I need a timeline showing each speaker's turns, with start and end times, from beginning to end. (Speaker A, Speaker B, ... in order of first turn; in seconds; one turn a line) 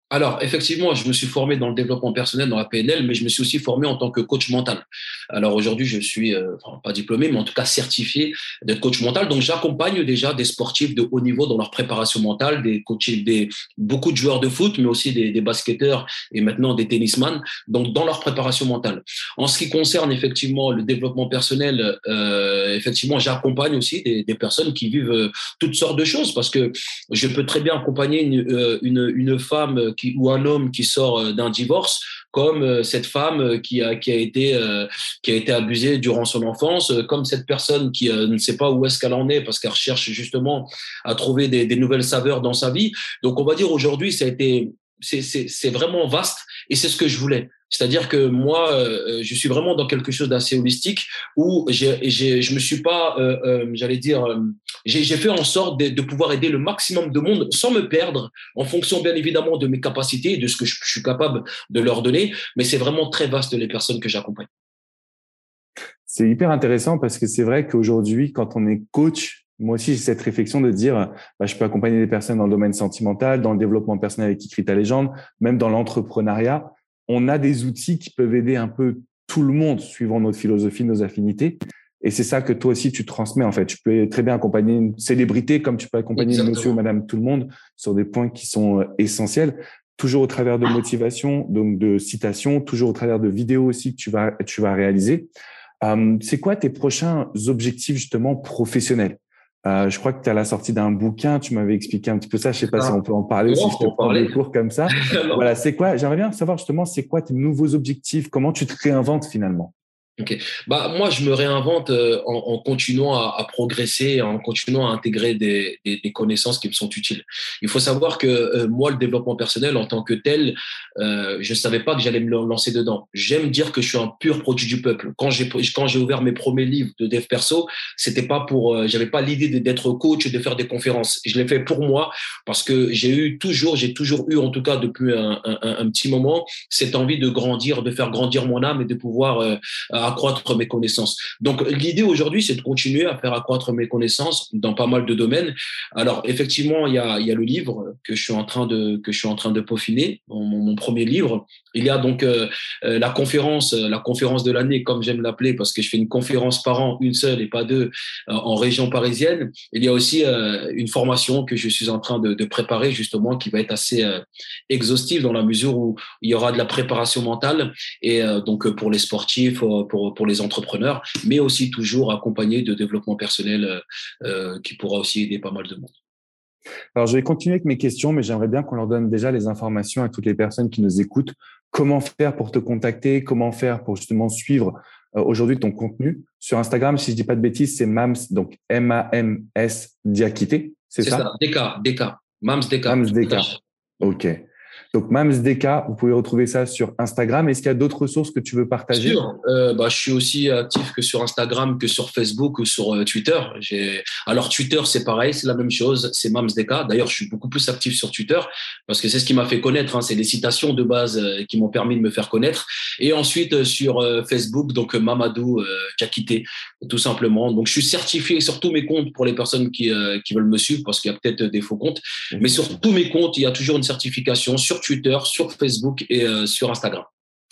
Speaker A: 0.1-64.5
Speaker B: 66.1-95.3
Speaker A: 86.2-86.8
Speaker B: 95.8-109.7
Speaker A: 102.7-104.3
Speaker A: 105.0-105.4
Speaker A: 110.2-175.9
Speaker B: 176.9-191.3
Speaker A: 191.0-193.6
Speaker B: 192.9-193.5
Speaker B: 194.0-194.4
Speaker B: 194.9-199.2
Speaker A: 198.9-227.1
Speaker B: 222.3-222.8